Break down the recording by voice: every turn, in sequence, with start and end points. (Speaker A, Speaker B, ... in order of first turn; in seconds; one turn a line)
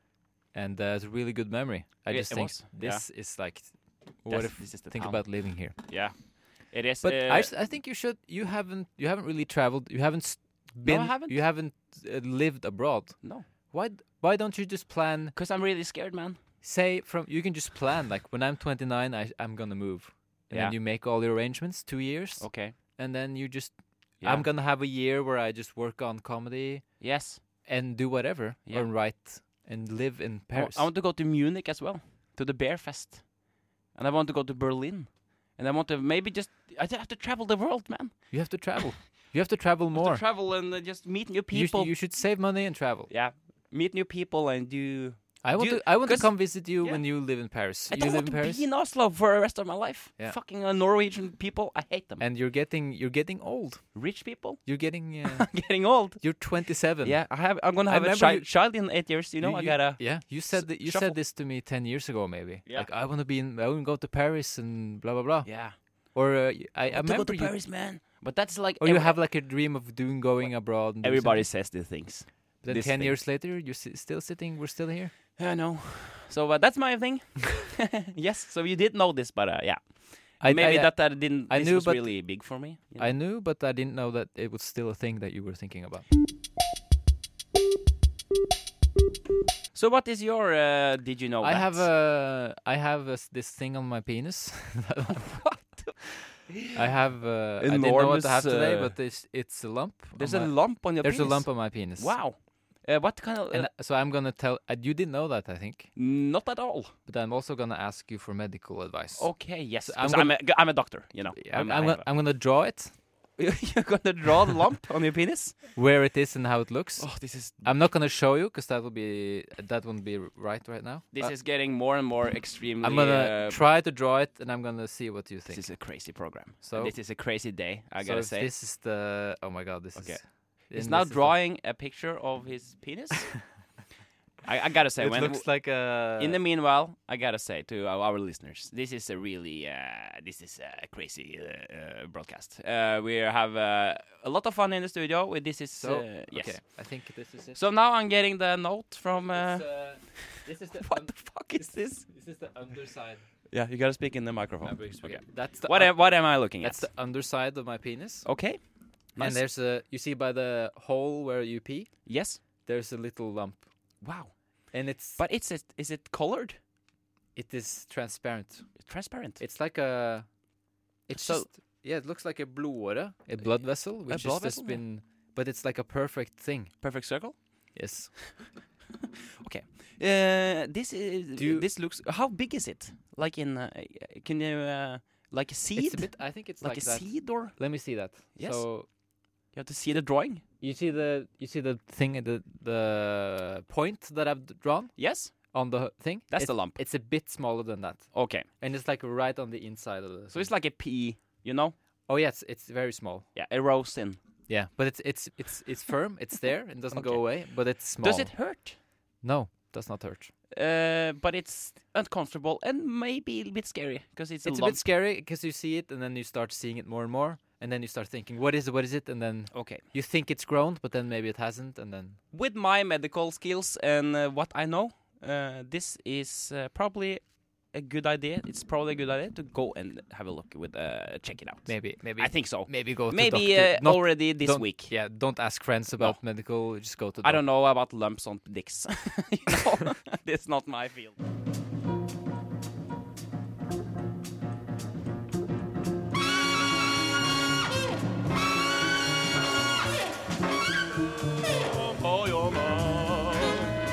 Speaker A: 0.5-5.8
Speaker B: 2.1-3.1
Speaker B: 4.3-7.5
Speaker A: 7.0-15.3
Speaker B: 10.8-11.4
Speaker B: 15.4-16.4
Speaker A: 16.6-26.9
Speaker B: 22.4-22.8
Speaker B: 24.2-24.5
Speaker B: 27.0-27.4
Speaker A: 27.6-30.9
Speaker B: 30.5-38.3
Speaker A: 38.3-40.2
Speaker B: 39.9-41.9
Speaker A: 41.5-43.1
Speaker B: 43.1-52.2
Speaker A: 45.4-48.7
Speaker A: 52.2-54.0
Speaker B: 53.9-61.2
Speaker A: 54.6-57.3
Speaker A: 57.9-58.8
Speaker A: 59.4-67.6
Speaker B: 65.5-65.8
Speaker B: 66.9-69.2
Speaker A: 68.8-71.7
Speaker B: 71.0-73.2
Speaker A: 72.6-75.1
Speaker B: 75.4-83.1
Speaker A: 80.4-86.1
Speaker B: 89.7-91.9
Speaker A: 91.4-96.1
Speaker B: 95.5-95.9
Speaker A: 96.7-102.2
Speaker B: 97.6-99.0
Speaker B: 100.2-103.7
Speaker A: 103.5-105.9
Speaker B: 106.0-106.9
Speaker A: 107.1-110.7
Speaker B: 109.2-112.1
Speaker A: 111.3-112.9
Speaker B: 113.4-115.6
Speaker A: 115.8-121.3
Speaker B: 117.0-117.6
Speaker B: 121.1-123.6
Speaker A: 122.8-127.1
Speaker B: 125.5-128.5
Speaker A: 128.0-131.4
Speaker B: 129.9-133.4
Speaker B: 134.4-146.6
Speaker A: 135.0-136.4
Speaker A: 145.8-147.6
Speaker B: 147.5-152.1
Speaker A: 149.3-153.2
Speaker B: 153.5-156.8
Speaker A: 154.6-158.3
Speaker B: 158.2-158.6
Speaker B: 159.2-159.4
Speaker A: 159.2-162.0
Speaker B: 162.1-162.4
Speaker A: 162.6-163.7
Speaker B: 164.0-164.4
Speaker A: 164.7-165.2
Speaker B: 165.2-166.6
Speaker A: 167.3-168.7
Speaker B: 168.8-169.4
Speaker A: 169.4-170.3
Speaker A: 171.1-176.7
Speaker B: 171.1-171.5
Speaker B: 174.1-174.8
Speaker B: 176.8-177.4
Speaker A: 177.8-178.2
Speaker B: 179.4-187.6
Speaker A: 181.4-181.7
Speaker A: 185.8-188.9
Speaker B: 188.3-188.7
Speaker B: 189.5-190.4
Speaker A: 190.6-200.5
Speaker B: 195.0-195.3
Speaker B: 196.3-196.8
Speaker B: 198.1-198.5
Speaker B: 200.3-201.8
Speaker A: 202.1-203.3
Speaker B: 203.3-204.2
Speaker A: 204.5-208.4
Speaker B: 206.9-208.8
Speaker A: 209.2-210.3
Speaker B: 210.5-214.8
Speaker A: 214.4-222.2
Speaker B: 219.5-219.8
Speaker B: 222.3-234.9
Speaker A: 231.7-237.4
Speaker B: 237.2-241.2
Speaker B: 251.8-253.7